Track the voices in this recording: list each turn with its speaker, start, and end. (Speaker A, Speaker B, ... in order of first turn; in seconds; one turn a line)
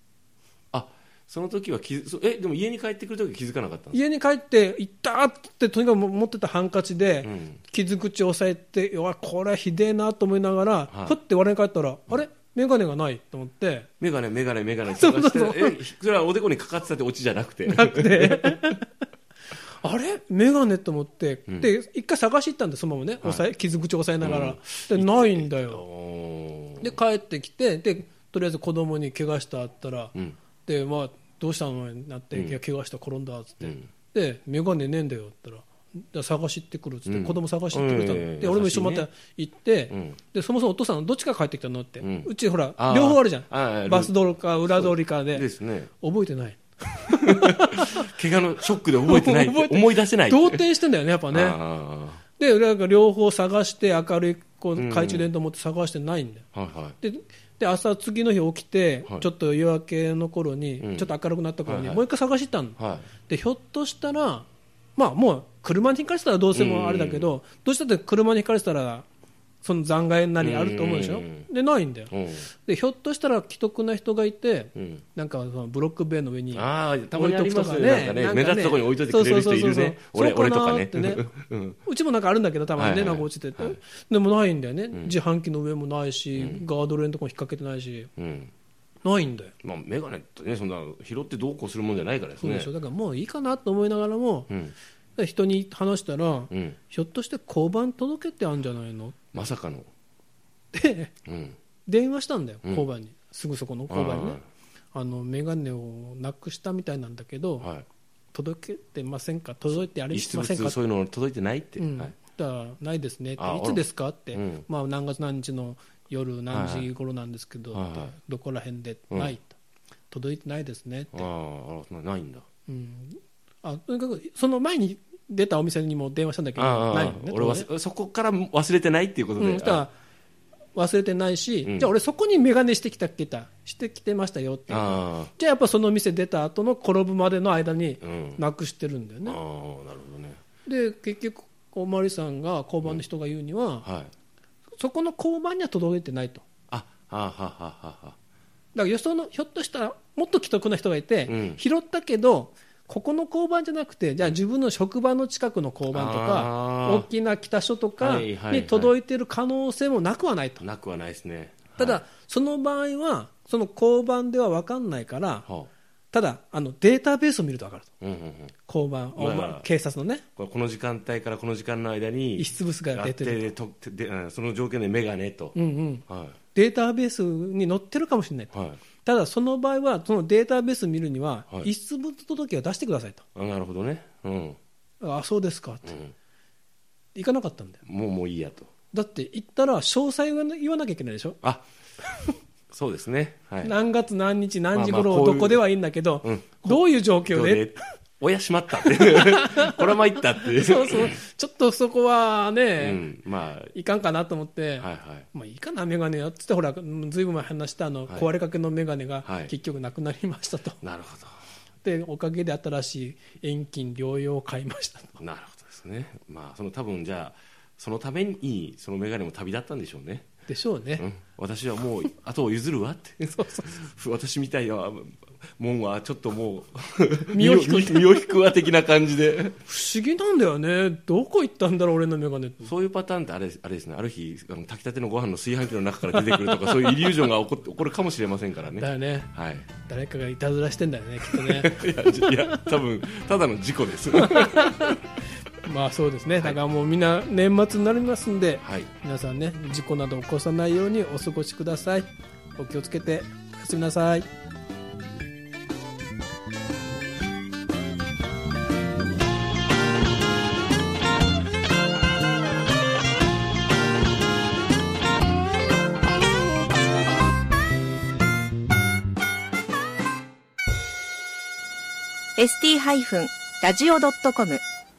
Speaker A: 0.7-4.0
Speaker B: 3.9-13.9
Speaker A: 7.2-7.6
Speaker A: 10.9-11.2
Speaker A: 14.0-18.8
Speaker B: 14.9-15.8
Speaker B: 17.6-18.8
Speaker B: 19.8-25.8
Speaker A: 24.2-26.9
Speaker B: 26.8-45.5
Speaker A: 32.3-32.6
Speaker A: 33.6-33.9
Speaker A: 37.0-39.1
Speaker A: 39.9-40.2
Speaker A: 42.0-45.9
Speaker B: 46.0-48.1
Speaker A: 47.1-50.7
Speaker B: 49.0-51.6
Speaker A: 51.3-52.2
Speaker B: 52.4-56.5
Speaker A: 54.7-55.3
Speaker A: 56.5-57.0
Speaker B: 57.0-69.0
Speaker A: 60.8-61.1
Speaker A: 61.6-62.0
Speaker A: 62.8-63.1
Speaker A: 66.5-67.3
Speaker B: 69.6-81.2
Speaker A: 70.4-71.5
Speaker A: 72.1-72.5
Speaker A: 74.7-75.0
Speaker A: 76.5-81.8
Speaker B: 81.8-88.1
Speaker A: 82.8-83.8
Speaker A: 86.3-86.6
Speaker A: 88.2-88.5
Speaker B: 89.0-89.5
Speaker A: 89.6-92.7
Speaker B: 92.4-94.5
Speaker A: 94.5-94.7
Speaker B: 95.2-99.3
Speaker A: 96.5-96.8
Speaker A: 99.3-99.9
Speaker B: 100.7-101.1
Speaker A: 101.3-101.6
Speaker B: 101.8-104.4
Speaker A: 103.9-104.4
Speaker B: 104.9-107.7
Speaker A: 107.6-107.8
Speaker B: 108.3-110.8
Speaker A: 109.7-112.1
Speaker B: 111.8-119.5
Speaker A: 113.4-114.6
Speaker A: 116.5-116.9
Speaker A: 117.7-118.1
Speaker B: 120.1-121.3
Speaker A: 121.1-122.4
Speaker B: 122.7-127.7
Speaker A: 126.5-129.9
Speaker B: 129.4-129.9
Speaker B: 130.7-139.4
Speaker A: 131.6-131.9
Speaker A: 134.7-135.3
Speaker A: 138.0-138.4
Speaker A: 139.2-140.4
Speaker B: 140.6-143.9
Speaker A: 143.8-144.1
Speaker B: 144.8-146.4
Speaker A: 146.7-148.2
Speaker B: 148.7-160.6
Speaker A: 151.3-151.6
Speaker A: 155.9-157.1
Speaker A: 158.0-158.9
Speaker A: 160.6-162.0
Speaker B: 161.8-165.5
Speaker B: 166.1-167.9
Speaker A: 168.0-168.5
Speaker B: 168.7-170.2
Speaker A: 169.1-169.7
Speaker A: 170.4-175.6
Speaker B: 172.4-173.5
Speaker B: 175.5-183.2
Speaker A: 176.1-176.4
Speaker A: 178.5-178.8
Speaker A: 183.3-184.6
Speaker B: 185.0-186.0
Speaker A: 185.8-186.1
Speaker B: 187.1-187.8
Speaker A: 187.8-188.7
Speaker B: 188.9-191.4
Speaker A: 192.7-193.7
Speaker B: 193.6-197.8
Speaker A: 194.7-195.6
Speaker A: 196.2-201.2
Speaker B: 198.8-203.0
Speaker A: 202.8-203.7
Speaker B: 203.7-210.8
Speaker A: 204.8-205.3
Speaker A: 209.2-209.5
Speaker A: 210.8-211.4
Speaker B: 211.8-215.2
Speaker A: 215.2-220.3
Speaker B: 220.5-221.1
Speaker A: 221.0-229.6
Speaker B: 223.3-223.8
Speaker B: 227.3-228.3
Speaker B: 229.6-232.7
Speaker A: 232.6-239.7
Speaker B: 236.1-237.2
Speaker B: 238.8-242.8
Speaker A: 241.2-245.0
Speaker B: 244.1-245.0
Speaker B: 245.6-254.2
Speaker A: 246.3-246.6
Speaker A: 248.6-248.9
Speaker C: 272.4-274.6